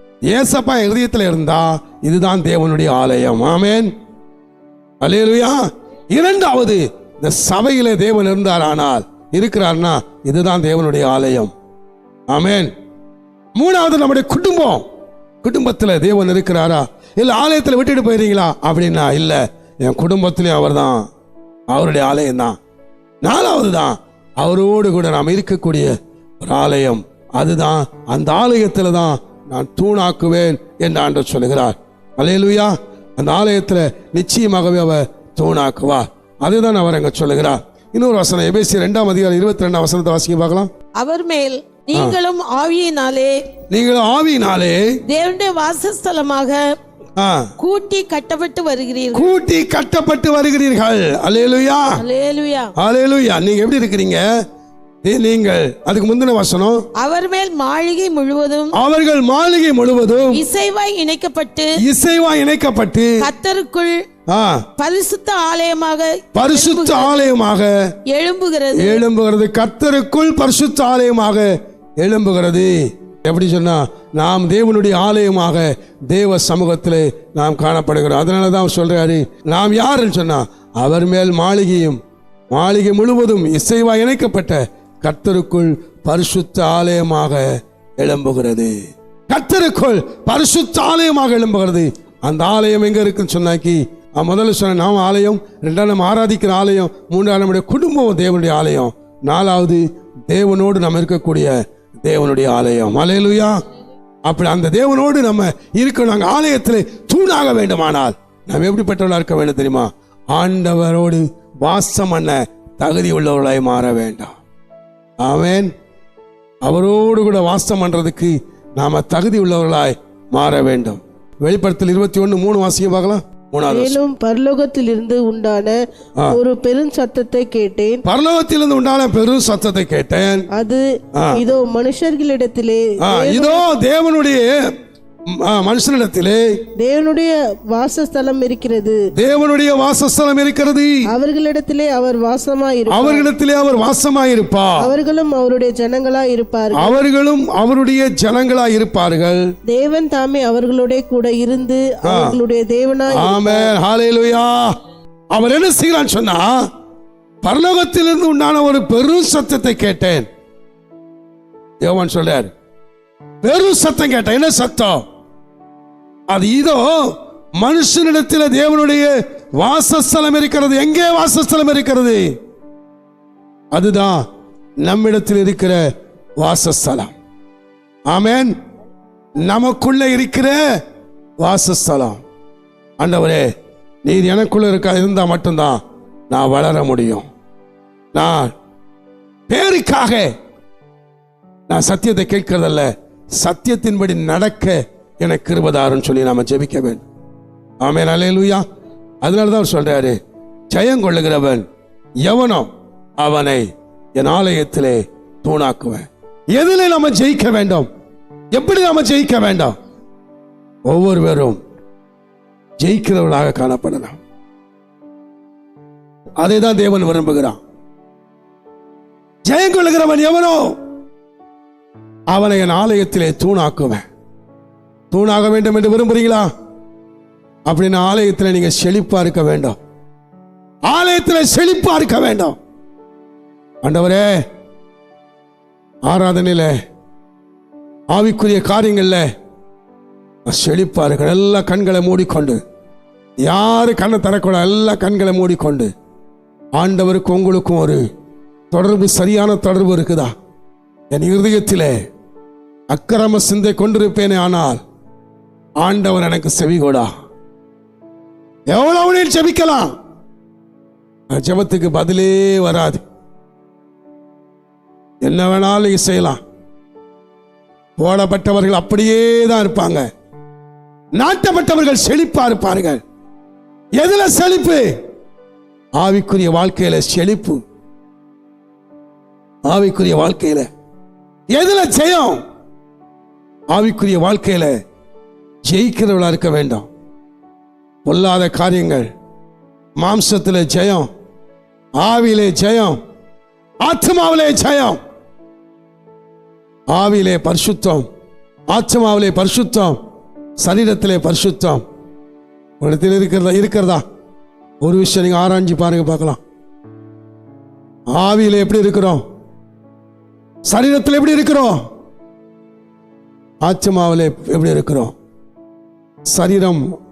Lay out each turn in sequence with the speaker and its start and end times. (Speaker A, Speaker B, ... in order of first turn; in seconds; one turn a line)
Speaker A: 0.3-3.9
Speaker A: 5.0-11.5
Speaker A: 12.3-12.7
Speaker A: 13.5-14.9
Speaker A: 15.4-21.1
Speaker A: 21.7-22.6
Speaker A: 23.2-40.7
Speaker B: 41.0-43.4
Speaker A: 43.7-44.8
Speaker B: 45.1-46.6
Speaker A: 47.2-47.5
Speaker B: 47.6-49.3
Speaker A: 49.1-52.0
Speaker B: 52.0-52.7
Speaker A: 52.8-54.2
Speaker A: 55.0-56.8
Speaker B: 57.0-58.7
Speaker A: 58.7-60.5
Speaker B: 60.3-61.7
Speaker A: 61.8-63.2
Speaker B: 63.2-63.9
Speaker A: 64.3-64.6
Speaker B: 64.8-67.2
Speaker A: 66.3-67.7
Speaker B: 68.1-69.0
Speaker A: 68.8-82.0
Speaker A: 82.5-88.8
Speaker A: 89.3-103.6
Speaker A: 104.2-114.3
Speaker A: 115.2-115.7
Speaker A: 116.6-124.0
Speaker C: 123.7-125.8
Speaker C: 126.3-128.0
Speaker A: 128.1-130.5
Speaker C: 130.5-133.6
Speaker A: 131.2-131.4
Speaker A: 133.0-134.7
Speaker A: 135.3-136.4
Speaker C: 136.8-139.0
Speaker A: 139.1-141.0
Speaker C: 141.1-143.3
Speaker A: 142.9-144.8
Speaker C: 144.8-147.0
Speaker A: 146.8-149.4
Speaker C: 149.7-153.7
Speaker A: 152.1-152.4
Speaker A: 153.1-154.6
Speaker A: 155.3-156.7
Speaker A: 157.4-160.3
Speaker A: 161.8-162.5
Speaker A: 163.4-165.0
Speaker A: 166.3-172.3
Speaker A: 173.7-174.2
Speaker A: 174.8-175.8
Speaker A: 176.4-177.1
Speaker A: 178.1-178.5
Speaker A: 179.4-180.6
Speaker A: 181.4-182.2
Speaker A: 183.0-183.4
Speaker A: 184.0-187.3
Speaker A: 188.1-188.5
Speaker A: 189.5-190.3
Speaker A: 191.7-197.0
Speaker A: 197.8-198.7
Speaker A: 199.2-200.2
Speaker A: 200.7-201.7
Speaker A: 202.2-202.7
Speaker A: 203.2-207.9
Speaker A: 208.5-209.8
Speaker A: 210.9-211.6
Speaker A: 212.8-214.2
Speaker A: 216.4-217.6
Speaker A: 219.4-220.8
Speaker A: 222.3-224.0
Speaker A: 225.1-226.5
Speaker A: 227.7-229.8
Speaker A: 230.9-232.6
Speaker A: 233.8-234.3
Speaker A: 236.1-236.7
Speaker A: 238.1-239.3
Speaker A: 240.5-242.6
Speaker A: 243.4-245.9
Speaker A: 246.8-248.0
Speaker A: 248.7-250.3
Speaker A: 251.1-251.9
Speaker A: 252.9-254.8
Speaker A: 255.8-257.1
Speaker A: 258.7-259.9
Speaker A: 261.3-263.0
Speaker A: 265.2-266.4
Speaker A: 268.0-270.1
Speaker A: 271.2-273.0
Speaker A: 274.0-274.9
Speaker A: 276.0-277.6
Speaker A: 279.7-280.7
Speaker A: 281.5-282.4
Speaker A: 283.7-284.8
Speaker A: 285.7-286.9
Speaker A: 288.0-289.1
Speaker A: 290.0-291.1
Speaker A: 292.0-293.0
Speaker A: 293.8-295.0
Speaker A: 296.9-298.1
Speaker A: 298.7-300.0
Speaker A: 300.6-301.8
Speaker A: 302.8-304.0
Speaker A: 304.8-306.4
Speaker A: 308.1-309.2
Speaker A: 310.7-311.8
Speaker A: 313.6-315.1
Speaker A: 316.3-316.8